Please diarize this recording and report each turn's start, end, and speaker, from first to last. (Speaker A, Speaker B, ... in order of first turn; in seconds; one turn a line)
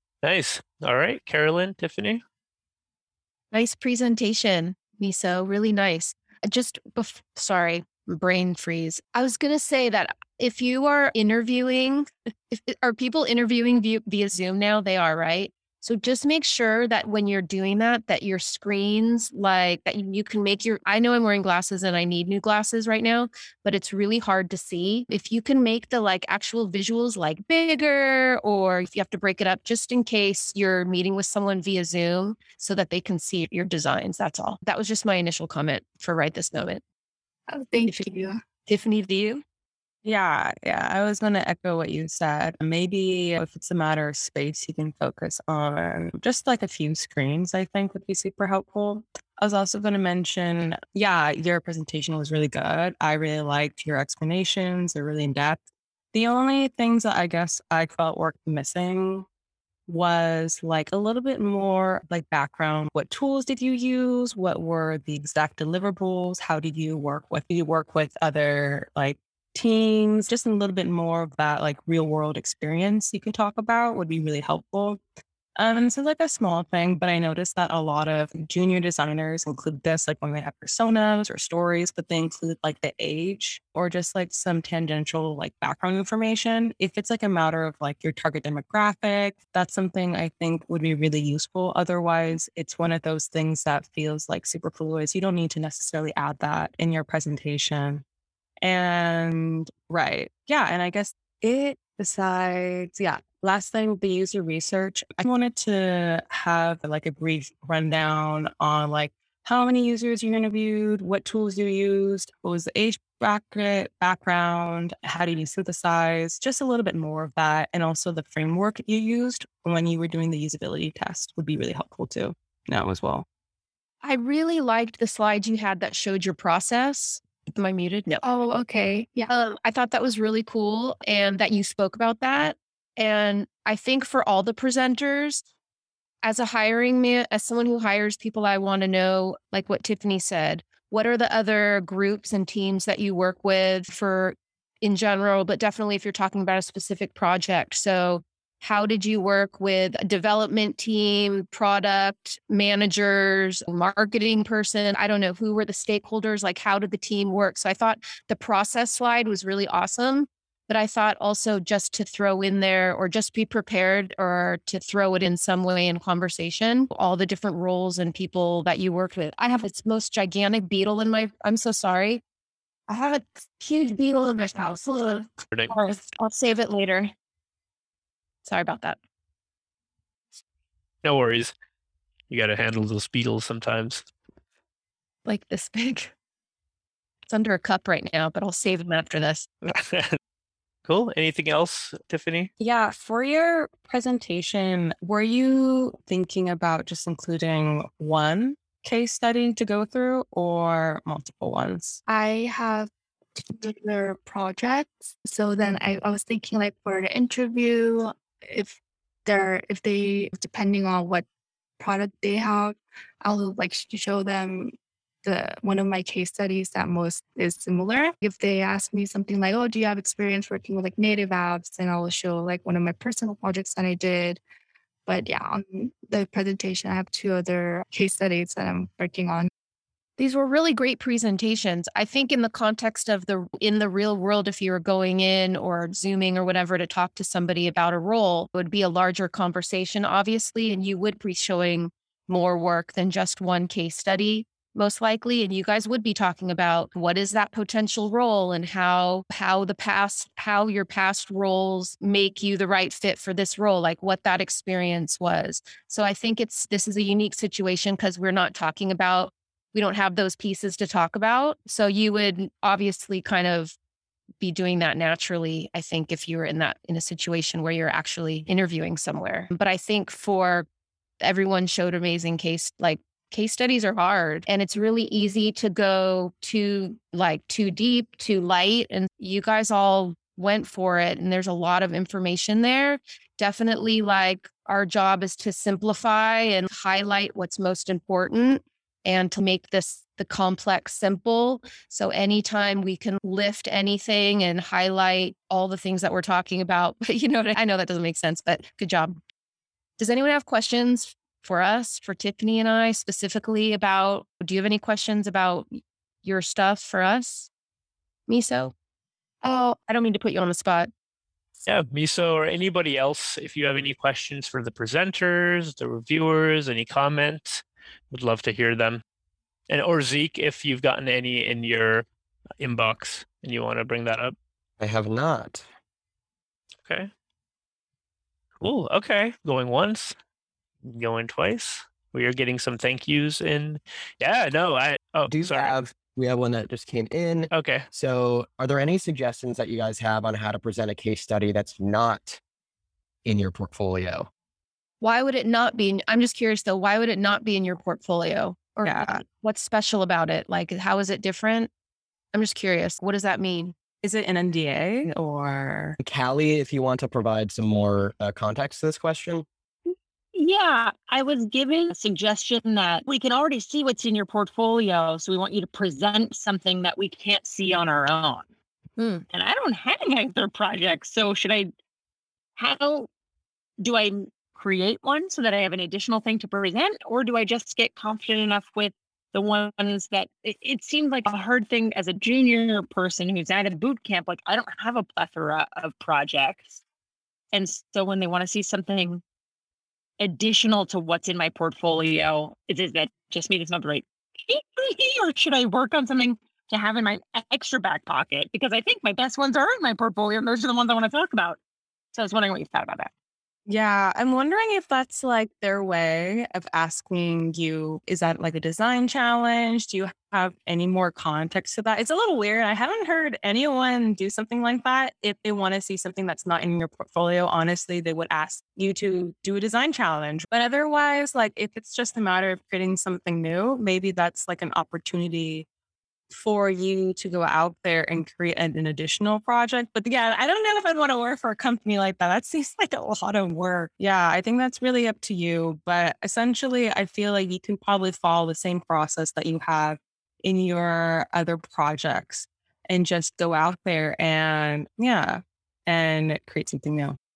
Speaker A: 0.2-2.2
Speaker B: 3.5-36.8
Speaker C: 37.5-38.4
Speaker B: 38.7-39.4
Speaker D: 40.0-55.6
Speaker D: 56.1-59.2
Speaker D: 59.9-75.0
Speaker D: 75.6-98.0
Speaker D: 98.6-123.2
Speaker B: 124.0-128.2
Speaker C: 128.2-129.3
Speaker B: 129.3-135.4
Speaker B: 136.2-172.2
Speaker B: 172.9-177.1
Speaker B: 178.4-179.0
Speaker A: 181.0-181.5
Speaker A: 182.3-184.0
Speaker B: 185.2-186.1
Speaker B: 187.3-189.5
Speaker A: 189.7-190.2
Speaker A: 190.8-192.5
Speaker D: 192.6-202.0
Speaker C: 202.1-211.2
Speaker C: 211.8-224.4
Speaker C: 225.1-229.5
Speaker B: 230.2-263.8
Speaker B: 264.4-270.7
Speaker B: 271.2-299.2
Speaker B: 300.0-305.7
Speaker B: 306.2-307.5
Speaker B: 308.3-308.7
Speaker B: 309.4-310.9
Speaker A: 311.6-319.0
Speaker A: 319.7-322.1
Speaker A: 322.6-324.3
Speaker E: 324.8-325.6
Speaker A: 326.8-327.1
Speaker A: 328.6-330.1
Speaker A: 330.8-335.7
Speaker E: 335.3-342.4
Speaker A: 337.5-337.9
Speaker E: 343.2-344.3
Speaker B: 345.0-351.7
Speaker D: 348.8-349.2
Speaker B: 352.3-353.7
Speaker D: 354.0-356.0
Speaker E: 356.0-359.4
Speaker F: 359.9-368.4
Speaker F: 369.0-371.7
Speaker F: 372.6-373.1
Speaker F: 373.8-386.8
Speaker F: 387.5-389.2
Speaker F: 390.2-401.6
Speaker F: 402.1-403.1
Speaker D: 403.7-425.6
Speaker D: 426.3-447.2